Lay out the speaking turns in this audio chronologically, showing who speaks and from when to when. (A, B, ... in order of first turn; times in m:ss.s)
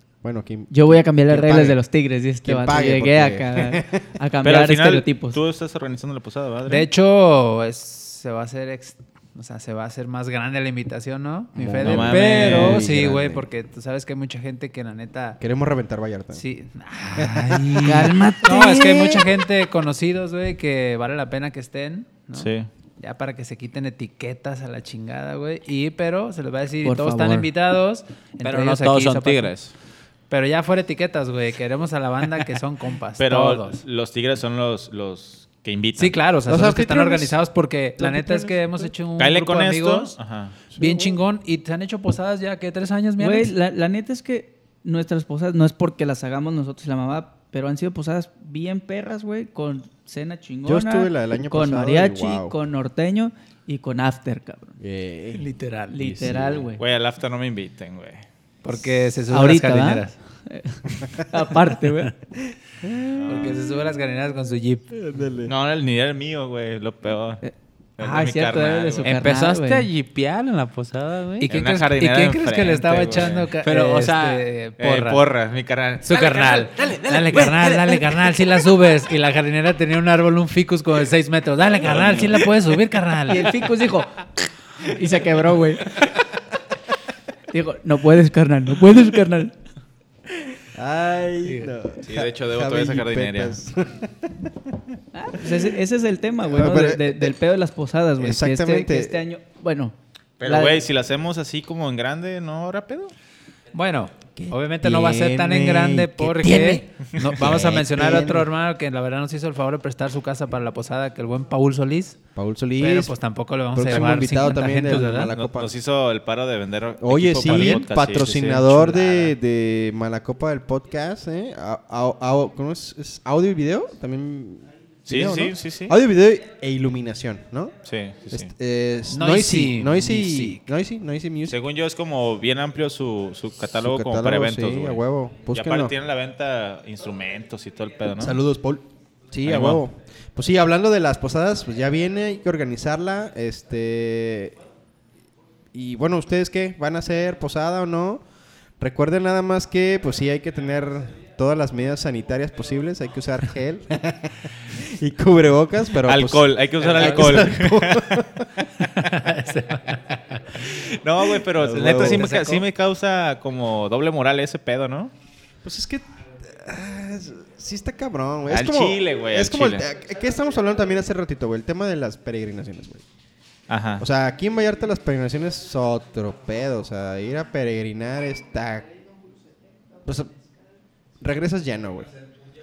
0:00.2-0:01.8 A
0:00.7-0:05.4 B
0:02.4-0:04.1 A
0:04.4-0:06.9 C
0:06.7-0:15.4 D
0:11.6-0:13.5 A
0:11.8-0:12.8 C
0:15.4-0:16.4 A
0:16.3-0:29.5 D
0:17.2-0:18.0 A
0:17.8-0:19.3 B
0:22.4-0:22.7 C
0:26.8-0:27.5 B
0:28.4-0:29.7 E
0:30.3-0:33.8 D
0:33.2-0:36.2 C
0:36.0-0:40.2 D
0:36.5-0:37.4 A
0:38.0-0:38.9 A
0:39.2-0:40.6 C
0:40.7-0:41.2 A
0:40.8-0:43.5 D
0:43.2-0:54.8 B
0:50.7-0:52.6 A
0:54.8-0:56.7 A
0:55.3-0:56.0 D
0:55.9-0:56.8 B
0:56.8-0:58.2 C
0:58.6-1:00.2 D
0:59.3-1:02.1 B
1:02.8-1:03.6 A
1:03.1-1:03.5 C
1:03.3-1:05.0 D
1:04.9-1:05.5 A
1:05.5-1:07.4 C
1:07.4-1:09.9 B
1:08.0-1:09.2 C
1:09.0-1:11.6 E
1:11.4-1:15.2 D
1:11.5-1:13.5 C
1:13.6-1:14.4 E
1:14.8-1:18.2 C
1:16.0-1:23.6 D
1:21.9-1:22.4 C
1:23.3-1:24.2 B
1:24.8-1:26.0 B
1:27.5-1:29.5 B
1:30.6-1:34.8 A
1:31.4-1:31.7 D
1:32.0-1:33.6 C
1:35.1-1:40.8 B
1:36.5-1:37.4 A
1:38.2-1:39.2 A
1:40.4-1:43.1 C
1:43.7-1:52.2 D
1:44.3-1:48.5 A
1:52.4-1:53.2 A
1:52.8-1:55.3 D
1:53.7-1:55.7 A
1:55.3-1:59.3 C
1:57.0-2:07.8 A
1:57.4-1:57.9 D
2:05.1-2:06.0 C
2:07.8-2:08.5 C
2:08.3-2:11.6 A
2:09.1-2:10.6 D
2:11.5-2:15.0 C
2:13.8-2:15.9 A
2:15.5-2:18.4 C
2:18.2-2:24.6 A
2:19.4-2:19.8 C
2:25.7-2:28.2 A
2:28.8-2:38.5 A
2:36.0-2:38.2 C
2:36.8-2:37.5 D
2:38.8-2:40.7 D
2:40.7-2:45.1 C
2:41.5-2:42.3 A
2:41.8-2:42.7 D
2:45.6-2:53.0 A
2:48.5-2:49.8 C
2:53.7-2:54.0 C
2:54.0-2:58.9 A
3:00.0-3:00.3 A
3:01.2-3:02.1 A